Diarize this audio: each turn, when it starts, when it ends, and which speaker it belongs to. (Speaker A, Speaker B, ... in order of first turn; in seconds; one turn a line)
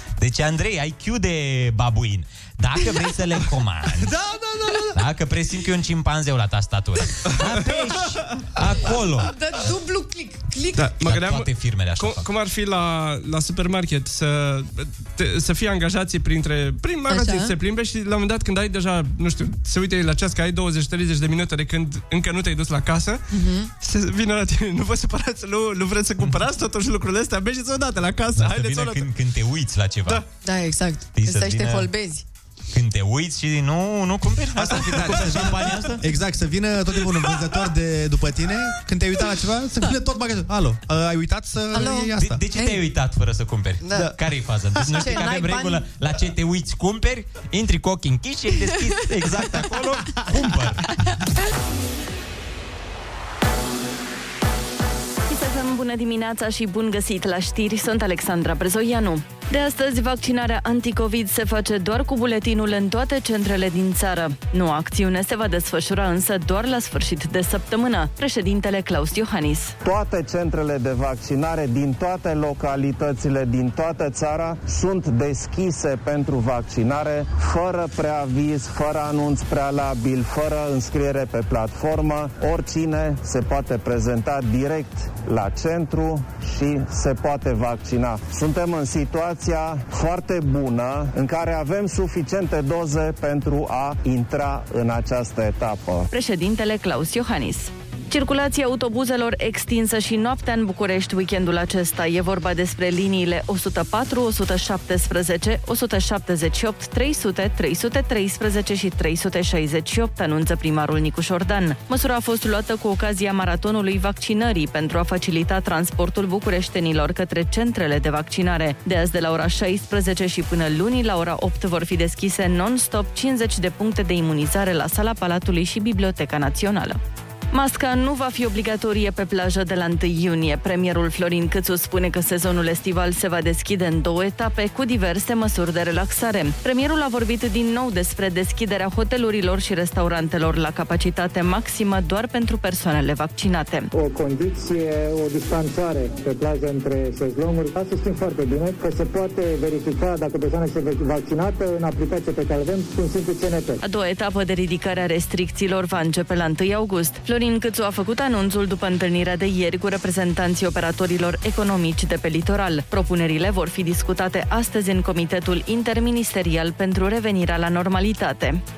Speaker A: 0.2-4.1
Speaker B: 4.0-5.0
Speaker A: 4.9-9.3
Speaker C: 7.3-8.2
Speaker D: 9.2-10.9
Speaker C: 10.8-23.2
Speaker A: 11.0-12.3
Speaker D: 17.1-17.5
Speaker D: 23.3-23.7
Speaker C: 23.8-29.1
Speaker A: 28.4-30.2
Speaker D: 30.4-32.2
Speaker A: 31.1-31.9
Speaker A: 32.7-36.0
Speaker B: 34.6-42.4
Speaker D: 41.7-42.8
Speaker A: 42.2-51.0
Speaker D: 43.8-44.1
Speaker D: 44.9-45.9
Speaker E: 55.3-69.8
Speaker F: 69.8-96.1
Speaker E: 96.1-127.0
Speaker E: 127.5-143.9
Speaker G: 143.9-153.8
Speaker E: 153.8-168.6